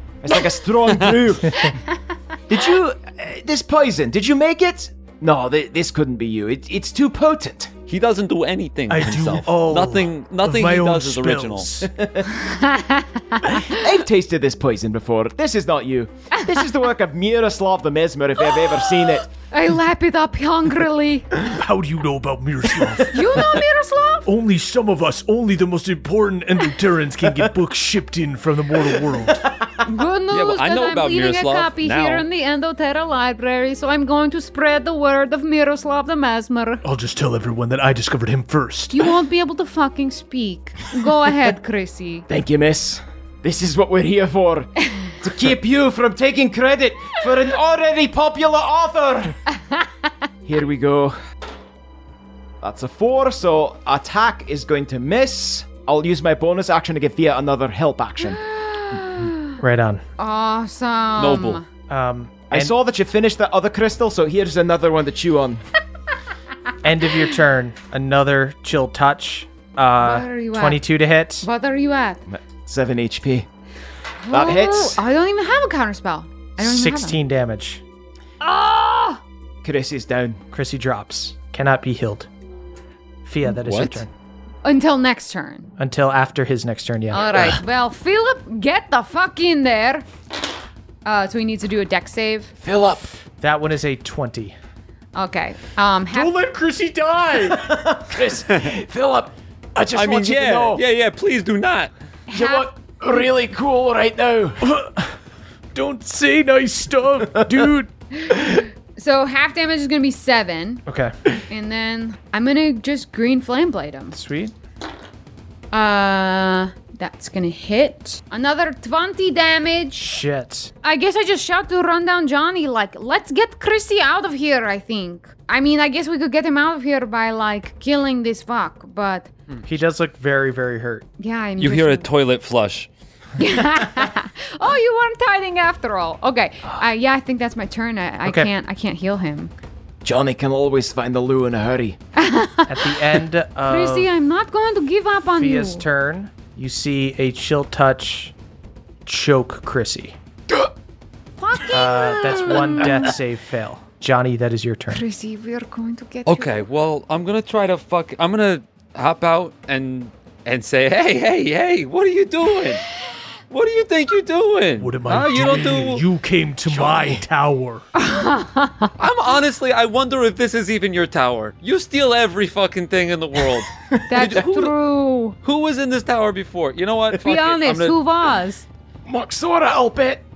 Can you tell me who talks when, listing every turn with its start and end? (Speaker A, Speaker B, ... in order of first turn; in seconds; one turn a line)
Speaker A: 0.2-1.8
Speaker B: 1.5-2.0
Speaker A: 2.5-7.7
Speaker C: 7.9-11.7
Speaker D: 8.9-11.9
Speaker A: 11.8-12.3
Speaker B: 12.3-13.8
Speaker A: 13.6-19.3
Speaker B: 16.3-16.7
Speaker B: 18.4-21.4
Speaker D: 21.4-23.5
Speaker B: 23.0-24.3
Speaker D: 24.2-29.4
Speaker A: 29.1-29.8
Speaker B: 29.8-36.8
Speaker C: 30.3-32.2
Speaker D: 36.8-39.1
Speaker B: 38.9-42.2
Speaker A: 42.3-49.4
Speaker B: 49.5-50.1
Speaker A: 50.4-51.2
Speaker A: 52.6-58.4
Speaker B: 58.2-59.6
Speaker E: 59.6-60.0
Speaker B: 60.2-61.6
Speaker C: 61.2-61.6
Speaker E: 61.9-62.7
Speaker A: 62.5-65.6
Speaker E: 66.8-71.5
Speaker B: 70.0-70.8
Speaker B: 71.4-72.2
Speaker A: 72.3-73.5
Speaker B: 74.2-77.2
Speaker A: 74.3-75.0
Speaker E: 76.6-77.8
Speaker B: 78.4-79.2
Speaker A: 79.6-80.4
Speaker E: 80.5-82.3
Speaker E: 83.2-84.1
Speaker C: 83.4-84.0
Speaker B: 84.6-85.7
Speaker E: 85.8-87.5
Speaker B: 87.1-90.0
Speaker B: 91.0-92.5
Speaker A: 92.6-93.1
Speaker E: 93.4-94.5
Speaker B: 95.1-96.3
Speaker D: 96.1-97.8
Speaker A: 97.5-100.8
Speaker C: 99.9-101.9
Speaker B: 102.3-102.7
Speaker A: 102.3-104.6
Speaker D: 104.7-105.1
Speaker D: 105.7-107.9
Speaker B: 108.2-110.8
Speaker E: 110.9-111.3
Speaker B: 111.5-114.2
Speaker E: 114.1-114.5
Speaker B: 115.7-120.1
Speaker E: 120.0-120.7
Speaker B: 120.8-129.3
Speaker E: 129.7-131.1
Speaker B: 131.2-132.1
Speaker C: 131.6-132.9
Speaker B: 133.4-139.5
Speaker A: 140.0-142.0
Speaker B: 142.2-142.9
Speaker E: 142.7-144.1
Speaker B: 143.7-145.8
Speaker E: 145.3-148.3
Speaker E: 149.1-150.2
Speaker B: 151.4-153.1
Speaker E: 151.7-155.0
Speaker B: 154.9-156.7
Speaker C: 156.2-162.8
Speaker C: 163.5-166.0
Speaker D: 164.8-167.8
Speaker A: 166.7-167.2
Speaker B: 167.9-168.9
Speaker C: 169.0-174.7
Speaker B: 174.1-175.3
Speaker C: 175.4-177.9
Speaker B: 177.2-178.7
Speaker A: 179.1-180.2